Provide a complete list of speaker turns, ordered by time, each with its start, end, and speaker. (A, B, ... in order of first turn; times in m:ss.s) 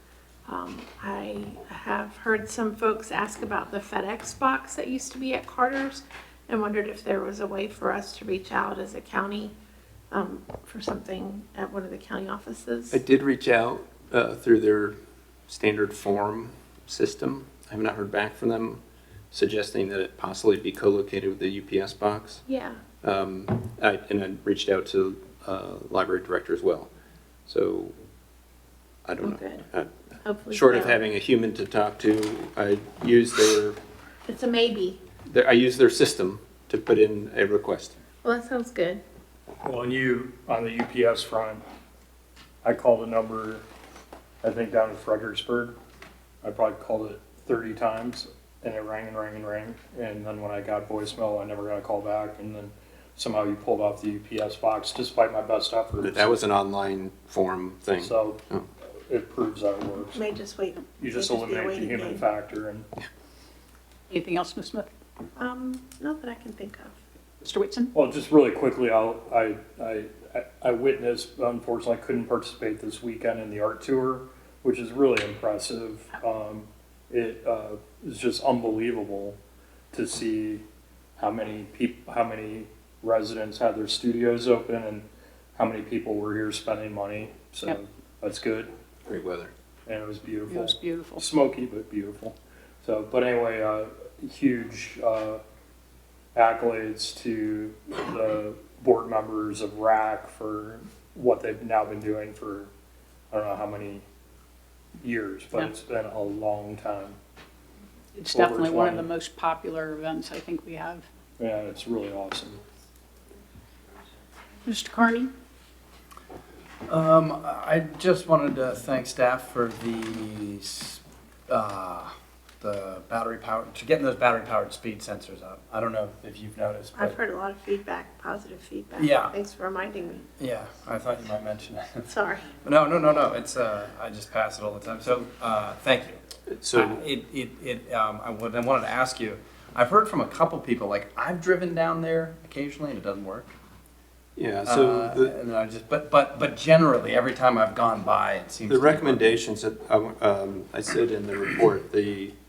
0:00.5-0:09.6 A
0:10.1-0:13.0 A
0:12.9-0:18.8 B
0:19.3-0:22.4 B
0:22.5-0:22.8 A
0:23.0-0:26.9 B
0:27.5-0:28.0 B
0:29.0-0:29.9 B
0:29.2-0:29.6 A
0:30.2-0:31.0 A
0:30.5-0:33.8 B
0:34.3-0:35.0 A
0:35.3-0:38.0 B
0:38.2-0:39.0 A
0:39.6-0:41.6 C
0:42.6-0:43.6 C
0:44.4-0:45.8 C
0:46.4-0:56.4 C
0:56.0-0:58.7 B
0:58.0-0:58.4 C
0:59.1-1:00.2 C
1:00.2-1:02.3 A
1:01.0-1:02.9 C
1:04.1-1:04.9 D
1:05.4-1:07.0 A
1:07.4-1:07.9 D
1:07.9-1:19.4 C
1:19.9-1:20.6 C
1:21.2-1:28.7 C
1:29.1-1:29.5 B
1:29.9-1:35.4 C
1:30.5-1:31.3 D
1:36.4-1:42.7 C
1:43.3-1:44.0 C
1:45.0-1:47.2 C
1:48.2-1:51.1 D
1:48.3-1:49.1 C
1:51.4-1:52.6 C
1:54.6-1:55.3 D
1:56.9-2:07.2 E
2:07.0-2:10.2 A
2:09.0-2:09.4 E
2:10.4-2:23.5 E
2:12.1-2:12.5 A
2:16.5-2:17.0 B
2:24.4-2:25.3 B
2:24.6-2:29.4 E
2:28.7-2:32.4 B